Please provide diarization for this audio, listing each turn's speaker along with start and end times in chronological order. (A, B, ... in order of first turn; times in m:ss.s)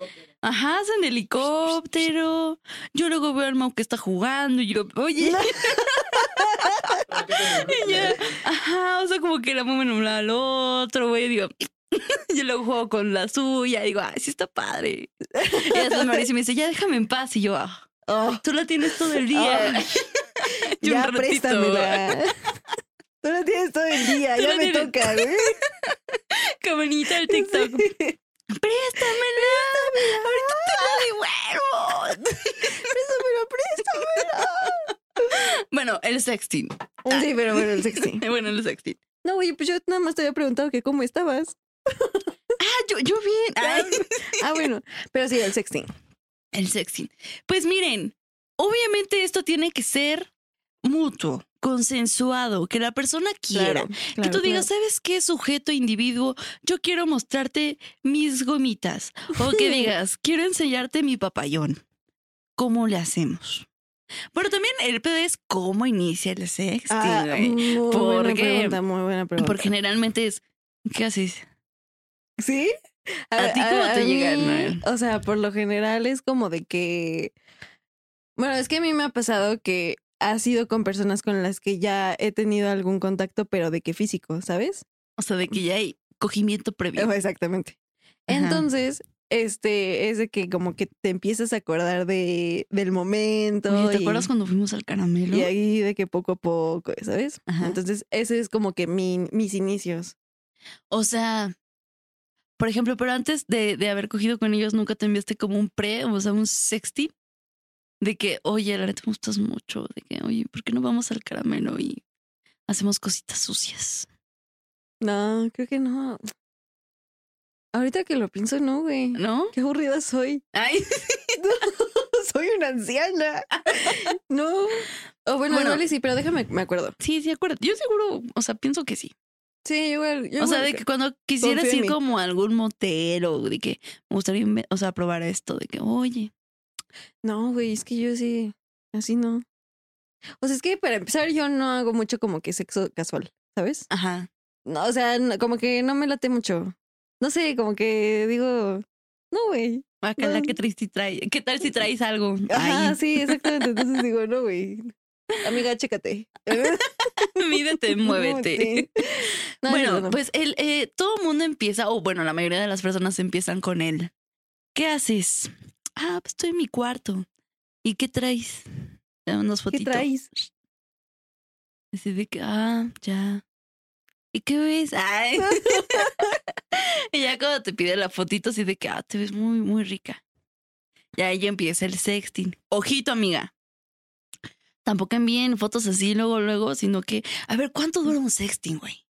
0:00.4-0:17.9 A
0:05.2-0:08.2 B
0:15.4-0:16.2 B
0:18.1-0:18.4 B
0:18.4-0:22.1 A
0:19.1-0:19.9 B
0:20.8-0:22.4 B
0:23.2-0:25.6 B
0:24.0-0:27.9 A
0:27.3-0:28.2 B
0:28.6-0:32.9 A
0:29.1-0:31.1 B
0:32.7-0:35.4 B
0:34.0-0:34.4 A
0:35.3-0:39.0 A
0:37.1-0:38.2 B
0:39.2-0:42.3 B
0:42.6-0:44.5 A
0:43.6-0:45.9 B
0:46.5-0:50.3 A
0:50.8-1:01.8 A
0:53.5-0:54.7 B
0:59.4-0:59.9 B
1:02.6-1:03.7 A
1:04.3-1:08.8 A
1:06.9-1:09.7 B
1:09.4-1:11.4 A
1:12.4-1:12.7 B
1:13.3-1:17.4 B
1:13.4-1:14.8 A
1:18.4-1:24.8 B
1:25.2-1:27.1 A
1:27.0-1:27.8 B
1:28.3-1:34.3 B
1:28.3-1:28.7 A
1:33.7-1:35.5 A
1:35.3-1:40.2 B
1:37.5-1:37.8 A
1:40.9-1:41.6 A
1:42.6-1:47.1 A
1:48.0-1:52.0 A
1:52.7-1:54.1 A
1:55.0-1:56.2 B
1:57.7-2:00.4 B
1:59.2-1:59.6 A
2:00.5-2:01.4 A
2:01.4-2:07.0 B
2:05.5-2:05.8 A
2:07.0-2:09.1 A
2:09.6-2:10.8 B
2:10.4-2:16.3 A
2:11.4-2:12.0 B
2:17.2-2:19.4 B
2:20.4-2:23.9 B
2:23.9-2:24.3 A
2:24.7-2:30.5 B
2:30.0-2:33.5 A
2:32.5-2:40.2 B
2:36.6-2:44.1 A
2:44.8-2:47.3 A
2:47.8-2:48.7 A
2:49.3-2:50.4 A
2:49.7-2:50.3 B
2:51.9-2:53.4 A
2:54.3-3:00.2 A
2:55.4-2:56.3 B
3:01.2-3:03.5 A
3:04.8-3:09.0 A